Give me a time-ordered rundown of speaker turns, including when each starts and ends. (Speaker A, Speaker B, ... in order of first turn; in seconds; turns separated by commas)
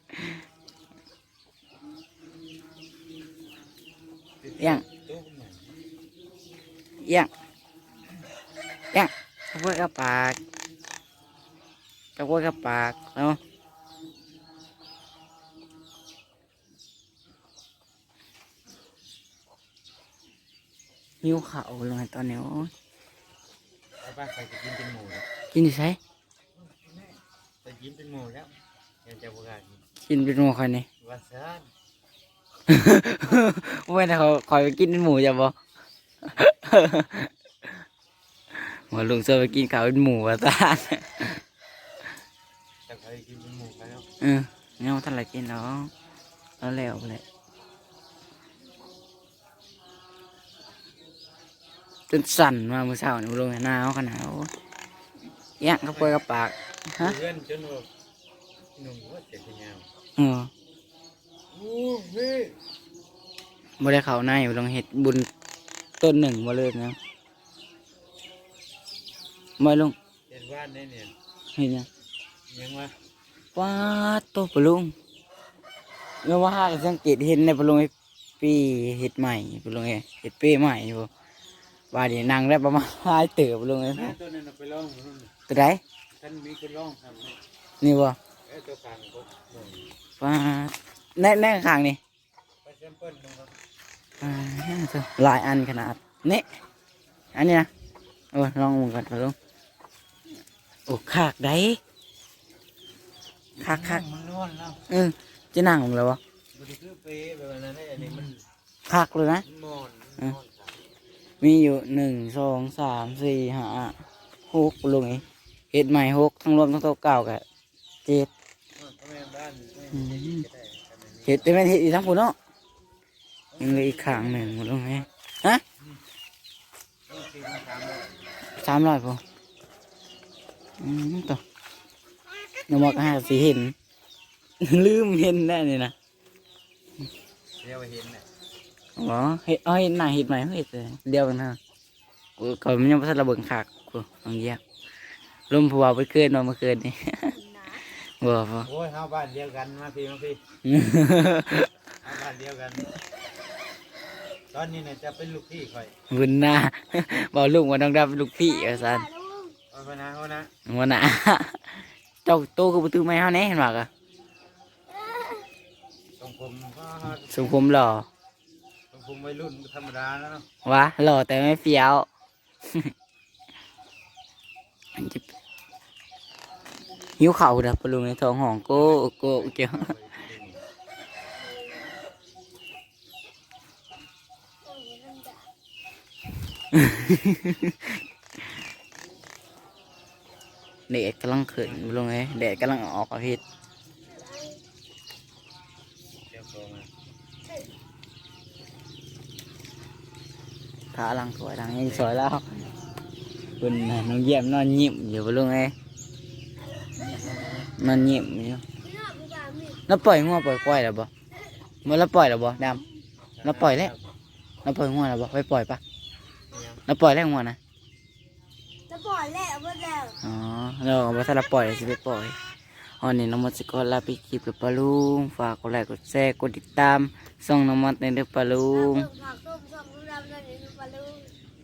Speaker A: 4.4-5.6, Speaker B: 4.6-4.8, Speaker B: 7.0-7.3, Speaker B: 8.9-10.4, Speaker B: 12.2-13.4, Speaker B: 21.2-22.7, Speaker A: 24.0-25.2, Speaker B: 25.5-26.0, Speaker A: 26.6-28.5, Speaker A: 29.0-29.8, Speaker B: 30.0-30.9, Speaker A: 31.0-31.7, Speaker B: 32.7-35.5, Speaker B: 36.3-37.3, Speaker B: 38.9-41.4, Speaker A: 42.9-44.1, Speaker B: 44.2-45.9, Speaker B: 46.6-47.2, Speaker B: 52.1-54.5, Speaker B: 55.6-57.1, Speaker A: 55.9-56.2, Speaker A: 57.0-57.9, Speaker A: 58.8-59.9, Speaker B: 60.2-60.5, Speaker A: 61.5-62.6, Speaker B: 63.8-65.3, Speaker B: 66.0-67.0, Speaker B: 69.6-70.0, Speaker A: 70.3-71.1, Speaker B: 71.5-71.9, Speaker A: 72.5-72.9, Speaker B: 73.5-74.9, Speaker B: 76.2-81.1, Speaker B: 81.9-84.2, Speaker A: 83.9-85.3, Speaker B: 85.5-85.8, Speaker A: 86.2-87.4, Speaker B: 87.8-88.2, Speaker A: 88.5-89.9, Speaker B: 90.2-92.0, Speaker A: 92.6-93.5, Speaker B: 94.2-96.4, Speaker B: 97.3-97.7, Speaker B: 98.3-99.3, Speaker B: 100.9-101.8, Speaker B: 103.6-104.0, Speaker A: 103.6-104.8, Speaker B: 104.9-106.2, Speaker A: 106.5-108.4, Speaker B: 108.9-109.4, Speaker A: 109.5-110.7, Speaker B: 111.4-117.4, Speaker B: 118.0-118.3, Speaker A: 118.8-121.5, Speaker B: 119.9-120.4, Speaker B: 121.2-122.3, Speaker A: 123.5-124.7, Speaker B: 123.6-125.6, Speaker A: 127.1-128.3, Speaker B: 128.5-129.2, Speaker B: 130.8-131.4, Speaker B: 132.7-133.7, Speaker B: 134.6-135.9, Speaker A: 137.5-138.2, Speaker B: 139.0-141.6, Speaker B: 142.4-144.6, Speaker B: 145.5-147.4, Speaker B: 148.1-148.7, Speaker A: 148.7-150.4, Speaker B: 150.6-151.7, Speaker A: 152.0-152.9, Speaker A: 154.5-155.9, Speaker B: 156.1-159.1, Speaker C: 158.4-159.6, Speaker A: 159.7-160.5, Speaker B: 160.7-163.9, Speaker C: 164.9-165.5, Speaker A: 166.2-167.6, Speaker B: 167.3-168.1, Speaker A: 168.9-170.4, Speaker B: 170.6-172.1, Speaker B: 174.9-175.2, Speaker B: 177.2-179.9, Speaker A: 178.7-180.6, Speaker C: 181.4-181.8, Speaker C: 184.6-185.5, Speaker B: 186.7-187.8, Speaker B: 190.9-193.4, Speaker A: 191.6-192.0, Speaker C: 194.1-194.6, Speaker A: 196.3-196.9, Speaker B: 200.9-202.5, Speaker A: 201.8-202.2, Speaker B: 203.6-205.7, Speaker A: 207.0-207.7, Speaker B: 207.8-208.6, Speaker C: 208.8-210.1, Speaker B: 209.9-211.1, Speaker B: 211.8-212.8, Speaker A: 213.4-214.1, Speaker B: 213.4-213.9, Speaker B: 214.6-215.8, Speaker A: 216.5-216.8, Speaker B: 216.9-217.6, Speaker C: 218.9-220.2, Speaker B: 220.2-222.3, Speaker B: 223.0-229.1, Speaker C: 228.7-231.3